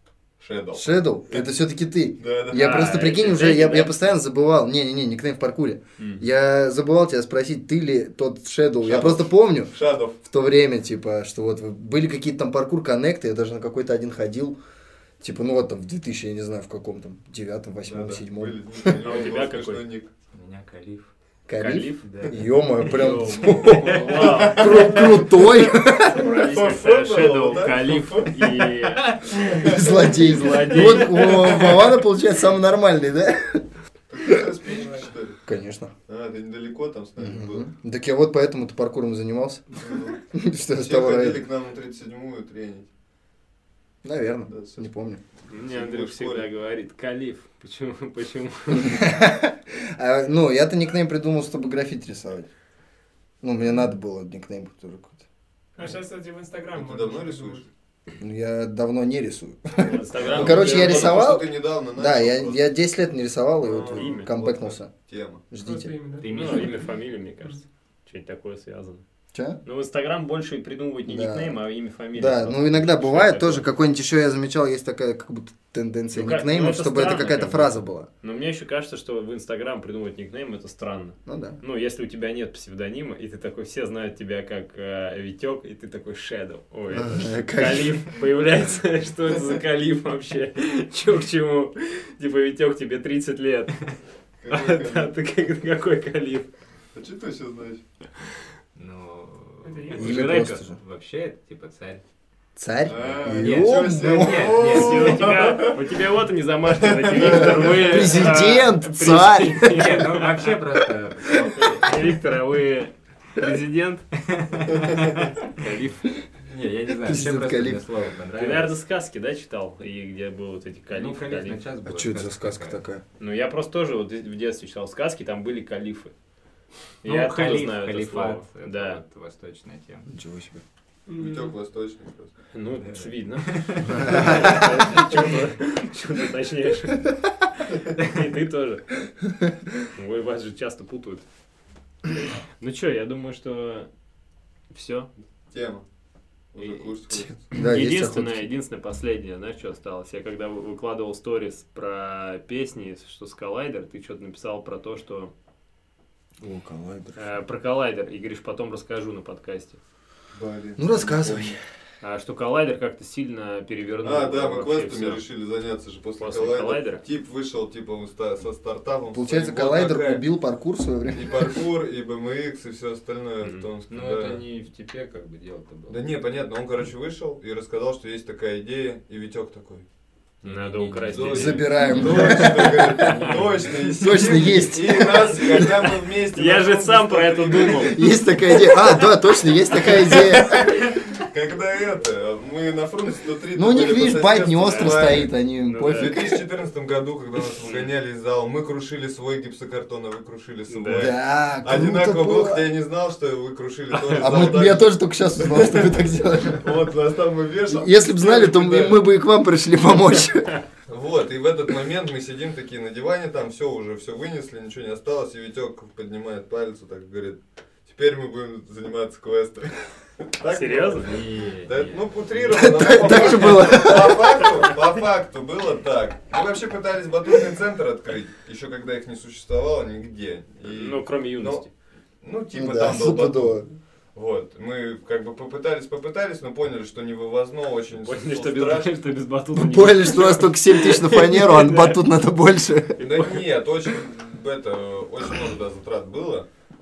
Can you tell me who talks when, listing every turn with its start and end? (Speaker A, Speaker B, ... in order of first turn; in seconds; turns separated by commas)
Speaker A: 0.4-1.4, Speaker B: 0.7-14.6, Speaker A: 2.2-3.1, Speaker C: 2.5-4.0, Speaker C: 6.0-6.2, Speaker A: 8.8-10.2, Speaker B: 15.2-19.0, Speaker A: 17.9-20.1, Speaker C: 18.9-19.8, Speaker D: 20.3-21.1, Speaker B: 21.5-26.3, Speaker C: 21.5-25.3, Speaker D: 22.0-23.0, Speaker A: 24.1-28.6, Speaker C: 26.1-31.7, Speaker D: 29.0-29.4, Speaker A: 29.5-32.0, Speaker B: 29.6-33.7, Speaker A: 34.1-35.4, Speaker E: 34.6-35.1, Speaker B: 35.5-35.9, Speaker A: 36.1-37.7, Speaker B: 37.2-39.6, Speaker A: 39.7-40.2, Speaker B: 40.3-41.5, Speaker A: 40.7-42.9, Speaker B: 44.0-45.2, Speaker A: 44.5-44.9, Speaker A: 45.5-46.5, Speaker C: 45.5-49.1, Speaker B: 48.7-52.5, Speaker B: 53.4-55.3, Speaker E: 55.8-57.6, Speaker A: 56.8-57.7, Speaker B: 58.2-64.9, Speaker C: 59.8-61.3, Speaker A: 60.2-62.6, Speaker A: 63.6-65.5, Speaker C: 63.9-64.3, Speaker B: 65.5-65.9, Speaker E: 65.6-66.7, Speaker D: 66.2-66.9, Speaker C: 66.3-69.0, Speaker B: 69.3-69.6, Speaker C: 69.6-73.7, Speaker B: 71.1-71.6, Speaker B: 72.1-78.1, Speaker C: 76.1-93.9, Speaker B: 81.3-81.6, Speaker B: 86.9-88.0, Speaker A: 89.3-89.6, Speaker A: 94.4-95.1, Speaker C: 94.5-96.5, Speaker A: 96.9-97.8, Speaker D: 98.8-102.0, Speaker E: 99.6-100.0, Speaker C: 100.0-100.6, Speaker B: 100.0-100.8, Speaker B: 102.6-104.7, Speaker A: 102.8-105.8, Speaker D: 103.0-105.4, Speaker C: 104.6-110.5, Speaker A: 106.8-108.2, Speaker B: 107.2-110.0, Speaker D: 109.6-111.9, Speaker C: 111.6-114.1, Speaker D: 114.3-115.2, Speaker C: 114.7-116.1, Speaker D: 116.5-118.8, Speaker B: 117.0-117.8, Speaker C: 118.4-121.6, Speaker D: 120.9-122.8, Speaker B: 121.8-123.0, Speaker C: 123.2-126.1, Speaker C: 127.0-129.0, Speaker D: 127.0-130.1, Speaker B: 130.1-130.6, Speaker E: 131.1-131.5, Speaker A: 131.1-132.3, Speaker C: 132.5-137.1, Speaker D: 132.8-134.6, Speaker B: 134.0-134.6, Speaker C: 137.7-138.9, Speaker C: 139.9-141.2, Speaker C: 142.6-143.9, Speaker C: 144.7-145.1, Speaker A: 145.5-145.8, Speaker A: 146.5-147.5, Speaker C: 146.6-146.9, Speaker B: 147.5-148.5, Speaker C: 147.5-155.3, Speaker B: 156.4-157.2, Speaker C: 157.2-159.8, Speaker A: 160.3-161.6, Speaker B: 160.8-161.6, Speaker C: 162.0-165.2, Speaker A: 164.0-170.2, Speaker C: 166.2-167.0, Speaker B: 169.1-171.6, Speaker A: 171.1-174.4, Speaker C: 173.4-173.7, Speaker D: 173.9-176.1, Speaker A: 175.9-179.9, Speaker D: 180.4-183.7, Speaker C: 180.4-183.4, Speaker A: 181.1-188.8, Speaker B: 181.2-183.2, Speaker B: 183.8-185.8, Speaker C: 185.4-189.0, Speaker B: 187.8-190.7, Speaker C: 189.8-190.7, Speaker A: 189.8-195.3, Speaker B: 193.6-196.4, Speaker C: 194.7-196.2, Speaker A: 195.9-205.9, Speaker C: 200.7-201.1, Speaker B: 200.9-202.7, Speaker C: 203.9-204.6, Speaker B: 204.2-206.9, Speaker A: 206.6-209.0, Speaker B: 207.7-210.6, Speaker A: 210.9-231.7, Speaker C: 220.4-221.1, Speaker D: 221.0-223.8, Speaker B: 222.5-224.6, Speaker C: 230.6-231.7, Speaker A: 232.2-233.6, Speaker B: 232.5-233.7, Speaker A: 234.2-238.9, Speaker C: 238.0-242.0, Speaker B: 239.5-243.0, Speaker C: 243.0-243.4, Speaker A: 243.0-246.5